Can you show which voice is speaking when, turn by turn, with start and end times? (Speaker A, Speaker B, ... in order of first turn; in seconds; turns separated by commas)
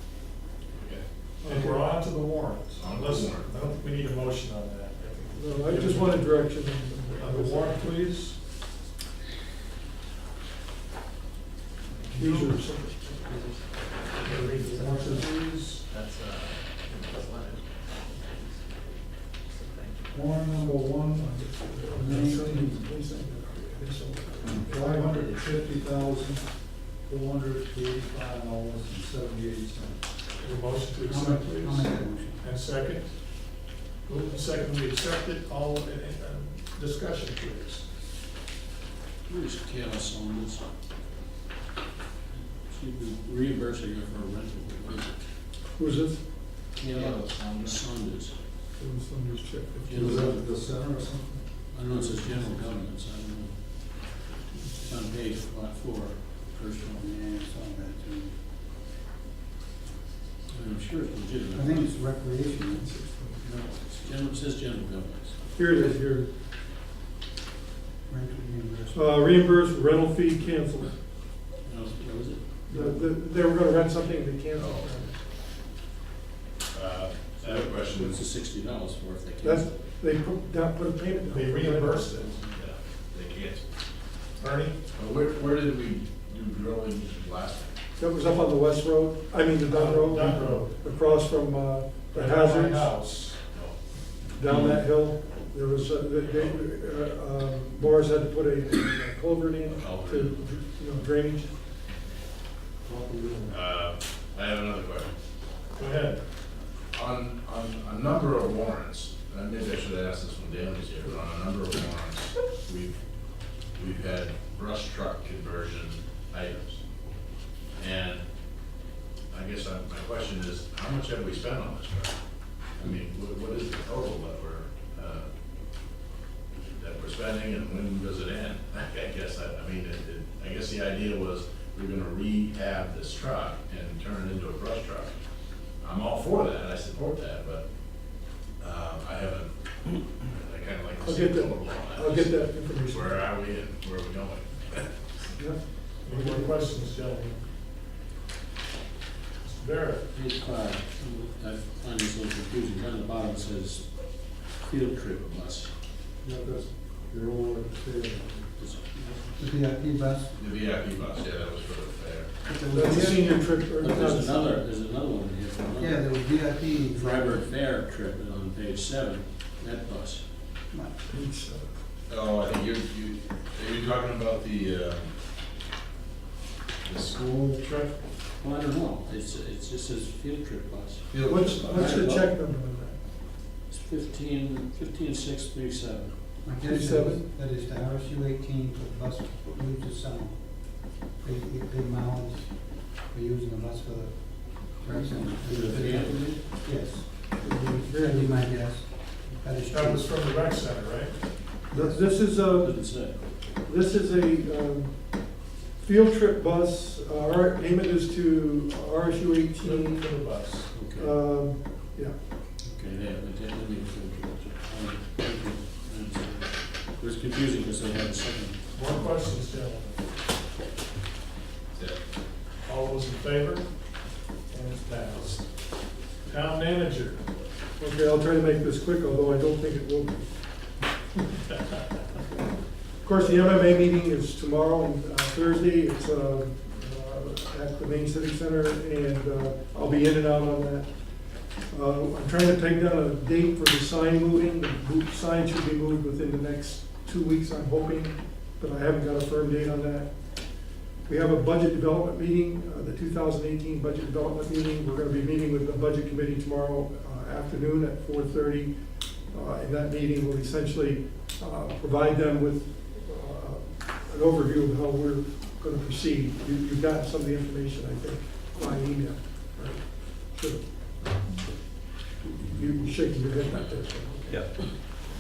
Speaker A: 0.8-1.0, Speaker B: 1.4-1.8, Speaker C: 1.5-6.4, Speaker A: 2.8-3.5, Speaker B: 5.3-7.9, Speaker C: 7.2-8.4, Speaker B: 12.1-13.1, Speaker C: 12.3-12.8, Speaker D: 13.5-14.2, Speaker C: 14.2-15.9, Speaker D: 15.9-20.6, Speaker E: 20.1-22.3, Speaker B: 21.1-25.4, Speaker F: 21.9-22.8, Speaker E: 24.5-30.0, Speaker C: 30.4-33.1, Speaker F: 31.0-32.5, Speaker C: 34.0-37.8, Speaker G: 39.3-40.7, Speaker G: 42.6-45.2, Speaker B: 45.7-46.2, Speaker G: 46.8-48.4, Speaker A: 46.9-47.8, Speaker B: 48.8-50.7, Speaker G: 49.9-50.5, Speaker E: 49.9-51.4, Speaker G: 51.7-54.2, Speaker G: 54.7-56.9, Speaker F: 56.7-58.4, Speaker G: 60.5-61.9, Speaker F: 61.5-62.9, Speaker B: 62.7-63.6, Speaker G: 63.6-65.8, Speaker B: 65.5-66.3, Speaker F: 68.1-69.2, Speaker B: 68.9-70.9, Speaker G: 71.6-73.0, Speaker B: 72.7-75.2, Speaker A: 74.5-74.9, Speaker A: 76.7-78.2, Speaker G: 77.4-79.8, Speaker B: 79.4-82.2, Speaker C: 81.3-82.3, Speaker A: 82.5-83.6, Speaker C: 84.4-84.8, Speaker A: 85.0-87.8, Speaker B: 88.0-92.9, Speaker C: 89.7-90.7, Speaker C: 92.1-93.4, Speaker B: 94.3-101.5, Speaker A: 96.3-96.6, Speaker A: 99.7-100.4, Speaker E: 103.0-103.5, Speaker A: 103.5-105.1, Speaker C: 105.8-106.2, Speaker A: 106.9-118.2, Speaker A: 119.3-122.2, Speaker A: 122.8-125.3, Speaker A: 126.8-135.1, Speaker A: 135.8-144.9, Speaker B: 141.0-143.2, Speaker B: 145.3-146.8, Speaker C: 146.0-147.4, Speaker C: 149.4-150.0, Speaker G: 150.1-155.7, Speaker E: 156.2-158.5, Speaker G: 158.6-159.4, Speaker F: 159.4-160.3, Speaker A: 160.4-162.3, Speaker F: 162.4-163.5, Speaker B: 162.7-164.5, Speaker G: 162.9-170.2, Speaker F: 165.8-167.4, Speaker F: 170.7-171.0, Speaker B: 171.1-171.8, Speaker A: 172.1-175.1, Speaker A: 176.8-177.8, Speaker G: 178.4-181.1, Speaker A: 181.1-182.1, Speaker B: 181.2-183.0, Speaker G: 181.6-182.3, Speaker G: 183.7-186.2, Speaker F: 186.4-200.1, Speaker B: 186.6-187.2, Speaker B: 194.9-195.2, Speaker G: 195.4-196.4, Speaker B: 197.4-198.6, Speaker C: 199.7-201.2, Speaker F: 201.7-202.1, Speaker B: 201.7-202.8, Speaker G: 202.4-203.2, Speaker B: 203.4-210.1, Speaker C: 209.6-210.7, Speaker G: 210.7-211.2, Speaker B: 211.0-212.1, Speaker G: 212.7-218.6, Speaker C: 218.7-220.0, Speaker C: 222.6-223.7, Speaker C: 224.5-225.5, Speaker C: 226.2-227.2, Speaker B: 227.8-230.8, Speaker B: 233.0-271.1, Speaker B: 272.4-274.9